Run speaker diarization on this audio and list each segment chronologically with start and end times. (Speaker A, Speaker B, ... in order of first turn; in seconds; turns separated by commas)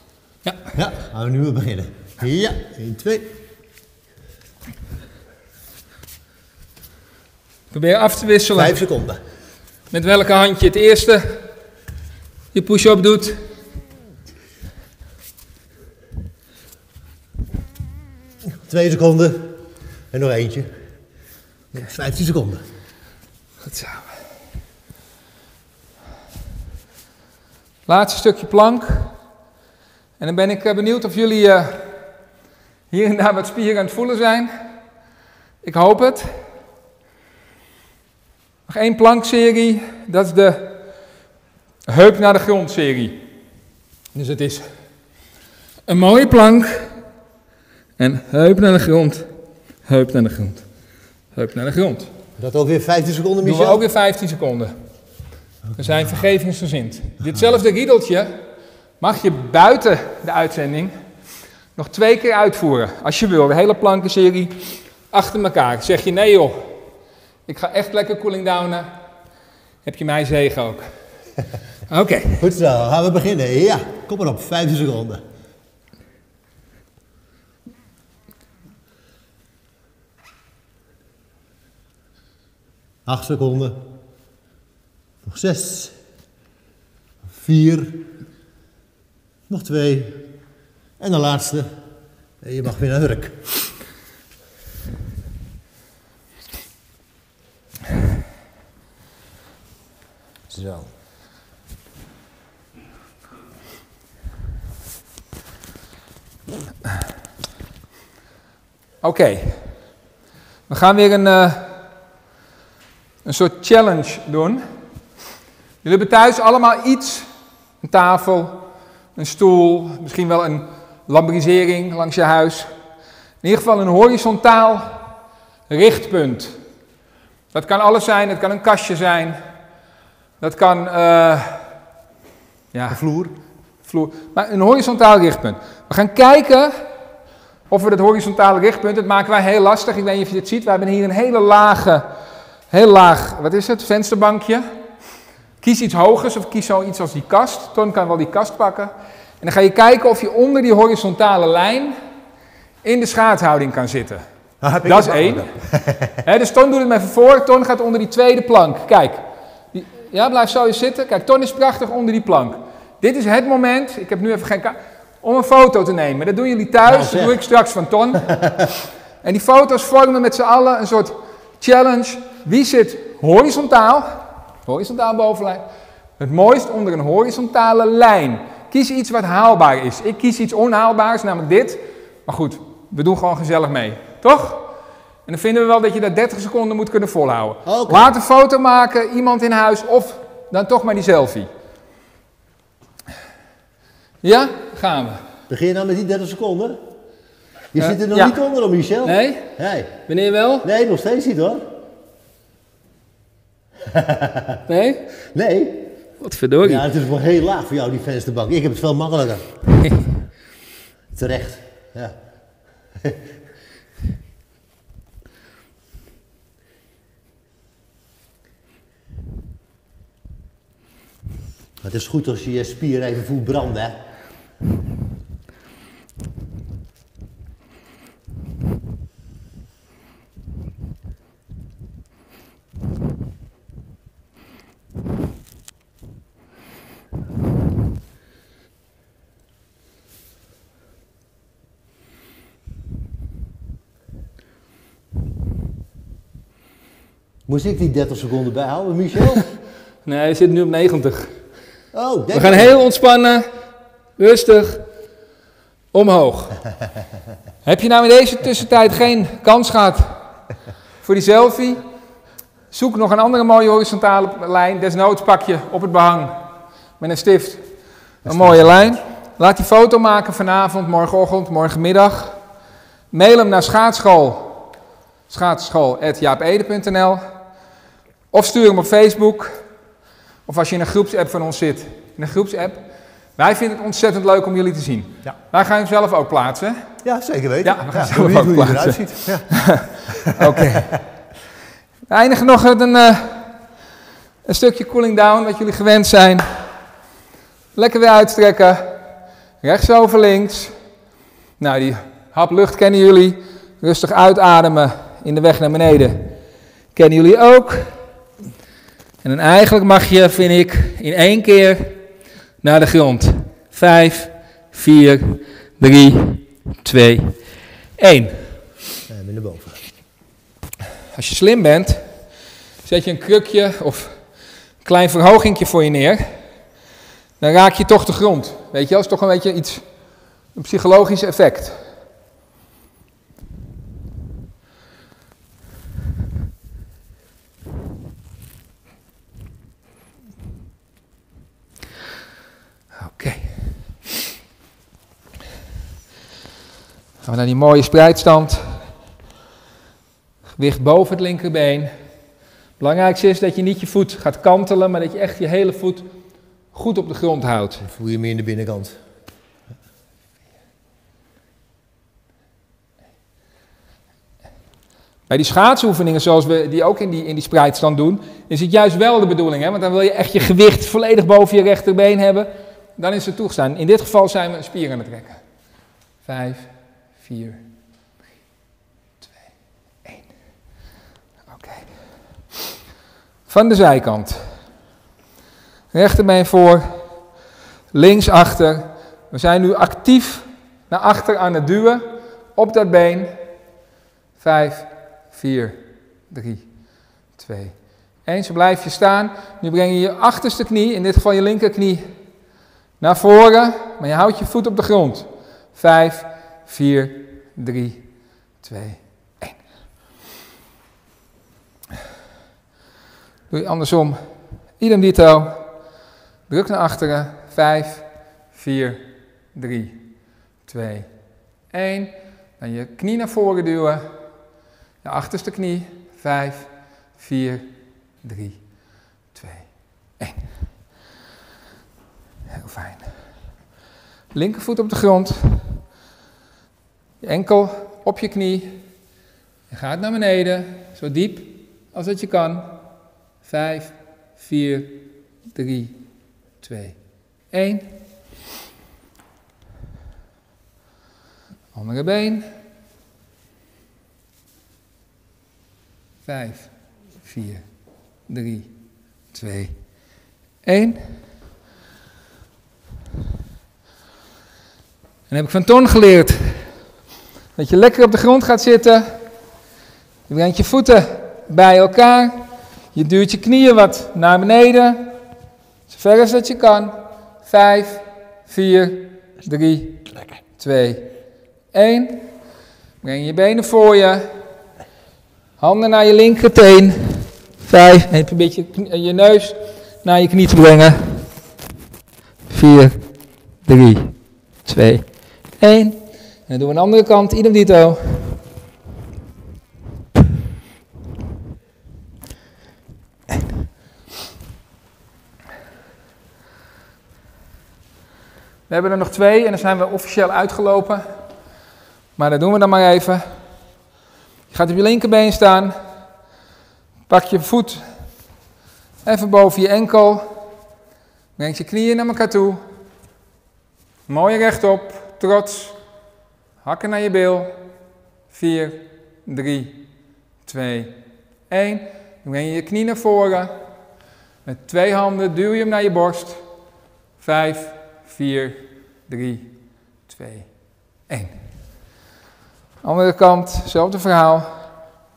Speaker A: 0.7-3.3, Speaker B: 7.7-8.8, Speaker A: 8.5-9.2, Speaker B: 9.9-11.4, Speaker B: 12.5-13.4, Speaker A: 18.5-20.7, Speaker A: 21.7-22.6, Speaker B: 23.6-24.1, Speaker B: 27.9-29.1, Speaker B: 30.2-31.9, Speaker B: 32.9-34.5, Speaker B: 35.6-36.3, Speaker B: 38.7-40.8, Speaker B: 41.9-43.2, Speaker B: 44.1-44.7, Speaker B: 45.9-46.9, Speaker B: 48.0-49.3, Speaker B: 49.9-50.6, Speaker B: 51.3-52.1, Speaker A: 52.4-53.8, Speaker B: 53.4-54.7, Speaker B: 55.7-58.4, Speaker B: 59.0-60.9, Speaker B: 61.8-66.7, Speaker B: 67.5-68.9, Speaker B: 69.8-70.8, Speaker B: 71.9-72.4, Speaker A: 72.4-75.2, Speaker A: 83.0-83.8, Speaker A: 85.2-85.9, Speaker A: 87.3-88.1, Speaker A: 89.5-90.3, Speaker A: 91.0-91.7, Speaker A: 92.4-93.6, Speaker A: 100.5-100.9, Speaker B: 109.0-109.7, Speaker B: 110.7-111.8, Speaker B: 113.2-114.6, Speaker B: 115.8-117.3, Speaker B: 117.8-118.6, Speaker B: 119.1-122.7, Speaker B: 123.4-125.1, Speaker B: 125.7-126.6, Speaker B: 127.5-129.4, Speaker B: 130.4-131.7, Speaker B: 132.7-133.0, Speaker A: 132.9-133.3, Speaker B: 133.8-136.7, Speaker B: 137.7-142.1, Speaker B: 142.7-144.7, Speaker B: 145.6-151.9, Speaker B: 152.8-154.2, Speaker A: 154.6-156.2, Speaker B: 154.8-155.5, Speaker B: 156.2-175.6, Speaker A: 166.8-167.4, Speaker A: 168.3-168.7, Speaker B: 176.2-184.7, Speaker B: 185.2-191.5, Speaker A: 187.7-188.1, Speaker B: 194.2-195.2, Speaker A: 195.5-196.8, Speaker A: 197.7-199.9, Speaker B: 197.8-198.4, Speaker B: 199.0-199.5, Speaker B: 200.1-200.7, Speaker A: 200.6-201.7, Speaker A: 203.8-204.6, Speaker B: 204.7-205.1, Speaker A: 205.3-205.9, Speaker B: 206.2-206.8, Speaker A: 206.6-209.5, Speaker B: 209.8-210.1, Speaker A: 211.1-212.1, Speaker A: 221.8-224.0, Speaker A: 247.5-249.4, Speaker B: 250.1-251.3, Speaker A: 251.9-252.7, Speaker B: 252.3-253.4, Speaker B: 254.2-254.8, Speaker B: 255.9-256.6, Speaker B: 257.6-260.2, Speaker B: 261.0-261.8, Speaker B: 262.7-266.4, Speaker B: 267.0-267.6, Speaker B: 268.2-272.4, Speaker A: 268.2-269.0, Speaker B: 273.1-274.7, Speaker B: 275.3-277.2, Speaker B: 278.3-279.6, Speaker B: 280.4-282.8, Speaker B: 283.4-286.8, Speaker A: 287.0-289.5, Speaker B: 287.6-291.0, Speaker A: 290.1-291.0, Speaker B: 292.1-293.5, Speaker B: 294.4-296.6, Speaker B: 297.7-299.0, Speaker B: 299.6-300.7, Speaker B: 301.6-306.3, Speaker B: 306.9-307.9, Speaker B: 309.2-312.0, Speaker B: 312.6-317.4, Speaker B: 318.0-318.5, Speaker A: 319.1-319.8, Speaker B: 321.1-322.0, Speaker B: 322.8-324.2, Speaker B: 324.8-326.4, Speaker B: 327.4-329.8, Speaker B: 330.5-331.8, Speaker B: 343.0-343.8, Speaker B: 347.2-348.9, Speaker B: 350.5-351.9, Speaker B: 352.8-356.1, Speaker B: 356.7-357.8, Speaker A: 357.8-359.0, Speaker B: 365.3-375.4, Speaker B: 376.2-377.6, Speaker B: 381.5-382.0, Speaker B: 383.5-384.5, Speaker B: 385.9-387.0, Speaker B: 387.9-393.3, Speaker B: 394.4-396.7, Speaker B: 397.4-402.0, Speaker B: 403.0-408.1, Speaker B: 408.6-409.6, Speaker B: 413.5-414.2, Speaker B: 414.8-415.7, Speaker B: 416.5-420.0, Speaker B: 420.6-421.1, Speaker B: 421.7-424.1, Speaker B: 425.0-428.7, Speaker B: 429.3-430.7, Speaker B: 432.5-433.1, Speaker B: 434.3-435.8, Speaker B: 437.2-438.8, Speaker B: 439.7-442.7, Speaker B: 443.4-446.0, Speaker B: 446.6-447.9, Speaker B: 451.7-452.5, Speaker B: 456.2-457.6, Speaker B: 458.3-458.7, Speaker B: 459.3-459.8, Speaker B: 460.6-461.1, Speaker B: 465.3-466.7, Speaker B: 467.6-469.1, Speaker B: 470.3-475.1, Speaker B: 475.9-480.1, Speaker B: 480.6-481.1, Speaker B: 481.7-482.3, Speaker B: 483.0-484.3, Speaker B: 485.6-491.2, Speaker B: 492.5-493.1, Speaker B: 493.6-498.4, Speaker B: 508.7-511.1, Speaker B: 512.2-513.2, Speaker B: 514.5-515.8, Speaker B: 517.1-517.8, Speaker B: 519.0-520.3, Speaker B: 521.4-522.6, Speaker B: 524.1-525.8, Speaker B: 526.6-527.5, Speaker B: 528.3-529.8, Speaker B: 530.4-533.6, Speaker B: 534.4-536.4, Speaker B: 537.2-541.4, Speaker B: 542.8-544.6